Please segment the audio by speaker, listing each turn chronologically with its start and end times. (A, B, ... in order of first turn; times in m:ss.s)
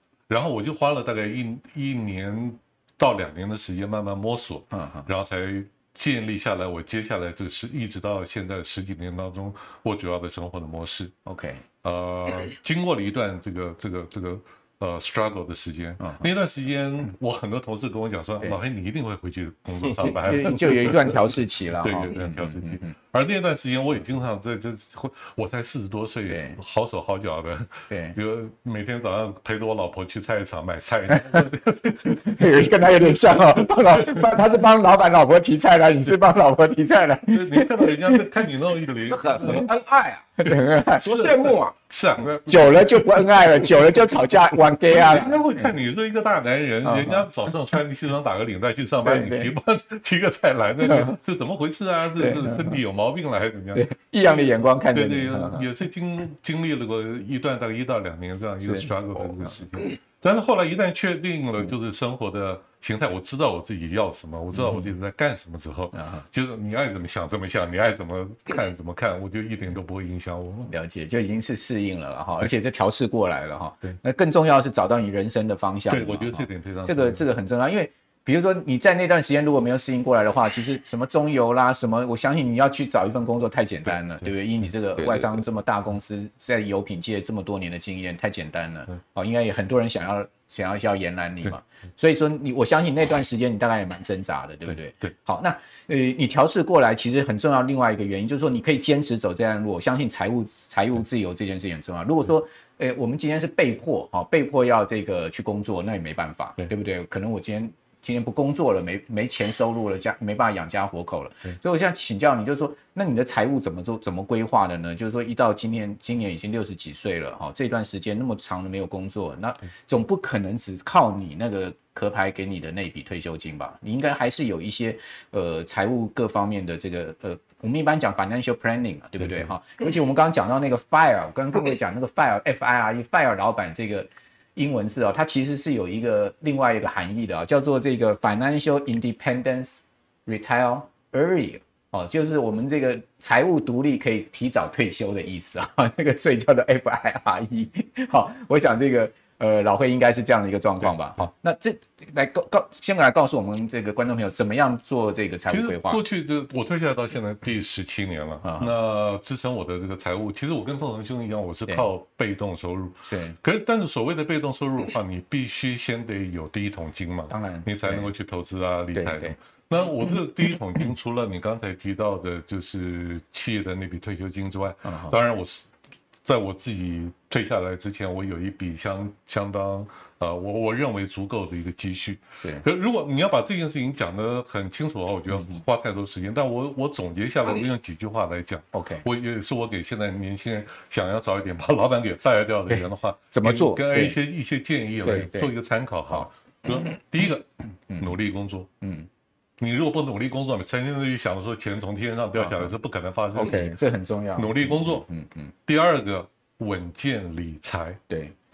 0:00.3-0:11.1 A
0:04.7-0:05.1 B
0:11.2-0:11.6 B
0:11.8-0:21.2 A
0:16.0-0:16.3 B
0:19.9-0:22.9 B
0:21.8-0:34.4 A
0:26.3-0:26.6 B
0:27.9-0:28.2 B
0:31.1-0:38.3 B
0:37.3-0:39.7 A
0:39.1-0:40.3 C
0:40.4-0:41.2 B
0:41.0-0:41.7 C
0:41.0-1:10.7 A
0:42.4-0:45.7 B
0:46.8-0:47.3 B
0:49.0-0:49.5 B
0:50.8-0:51.2 B
0:52.2-0:52.8 B
0:53.7-0:55.7 B
0:58.6-0:58.9 B
1:04.5-1:04.9 B
1:05.9-1:06.2 B
1:10.7-2:36.0 B
1:15.9-1:17.2 A
2:35.5-2:55.6 A
2:38.4-2:38.7 B
2:43.0-2:43.4 B
2:47.3-2:48.1 B
2:48.9-2:49.4 B
2:54.8-2:55.2 B
2:56.2-3:17.5 A
3:02.4-3:02.6 B
3:05.3-3:05.6 B
3:08.7-3:09.0 B
3:12.7-3:14.2 B
3:15.0-3:15.5 B
3:16.1-3:16.9 B
3:17.9-3:18.1 B
3:18.0-3:18.7 A
3:18.8-3:19.1 B
3:19.6-3:23.8 A
3:22.4-3:22.7 B
3:23.3-3:25.5 B
3:24.4-3:25.0 A
3:25.6-3:28.0 A
3:28.1-3:28.3 B